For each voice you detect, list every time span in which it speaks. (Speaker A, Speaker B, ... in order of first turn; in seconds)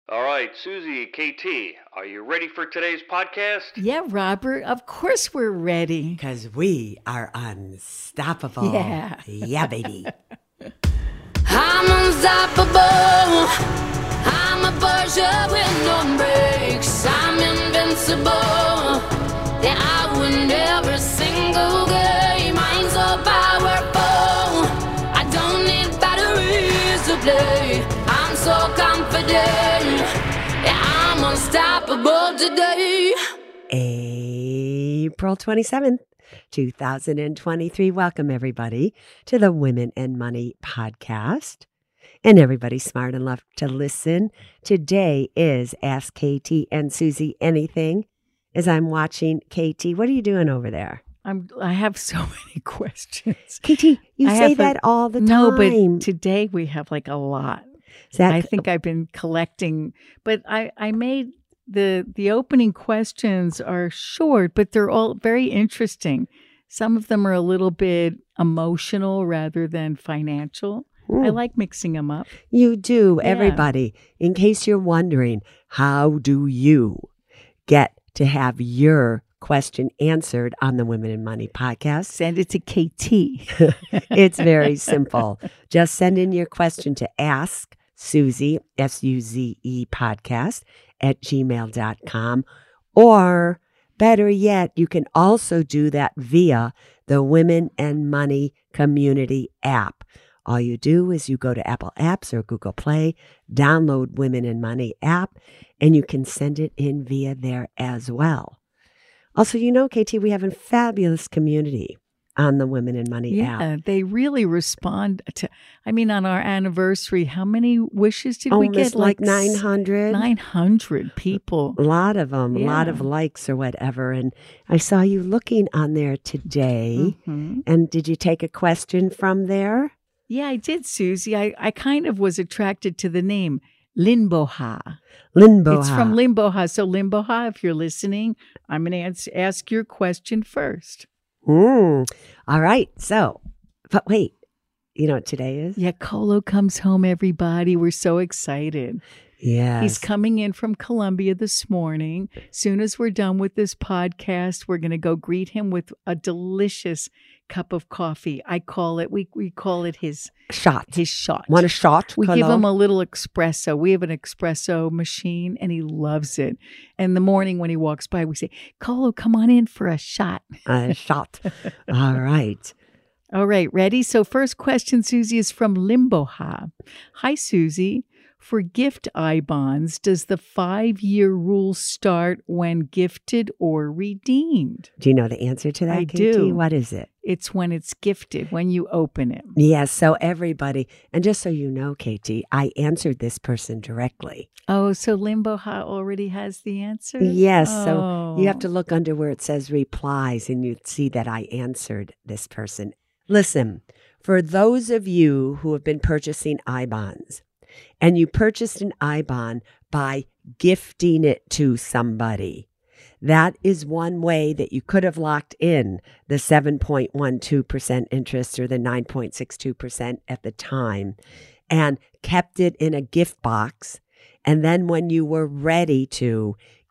Speaker A: 0.1-3.8
Speaker B: 3.8-6.2, 8.6-10.7, 51.2-53.6, 54.2-57.7, 58.3-72.3, 73.2-73.6, 82.1-84.0, 113.3-121.8, 122.5-123.1, 127.0-127.6, 130.3-135.0, 135.7-141.1, 145.8-149.0, 149.8-160.3, 160.9-161.6, 162.2-170.6, 173.3-184.9, 185.9-186.6, 187.2-189.6, 194.7-198.7
Speaker C: 6.2-10.1, 33.7-41.6, 42.2-51.0, 53.6-56.0, 58.1-58.6, 71.1-71.4, 72.5-77.1, 77.7-82.2, 83.6-108.6, 109.3-113.6, 118.5-120.3, 121.8-129.9, 135.3-136.2, 141.4-144.3, 144.9-145.8, 149.4-150.0, 160.5-162.6, 170.7-172.7, 185.0-187.1, 189.6-194.5, 197.2-207.4, 208.0-212.7, 213.2-221.2, 221.7-226.6
Speaker D: 11.4-13.5, 14.2-19.1, 19.6-30.1, 30.6-33.2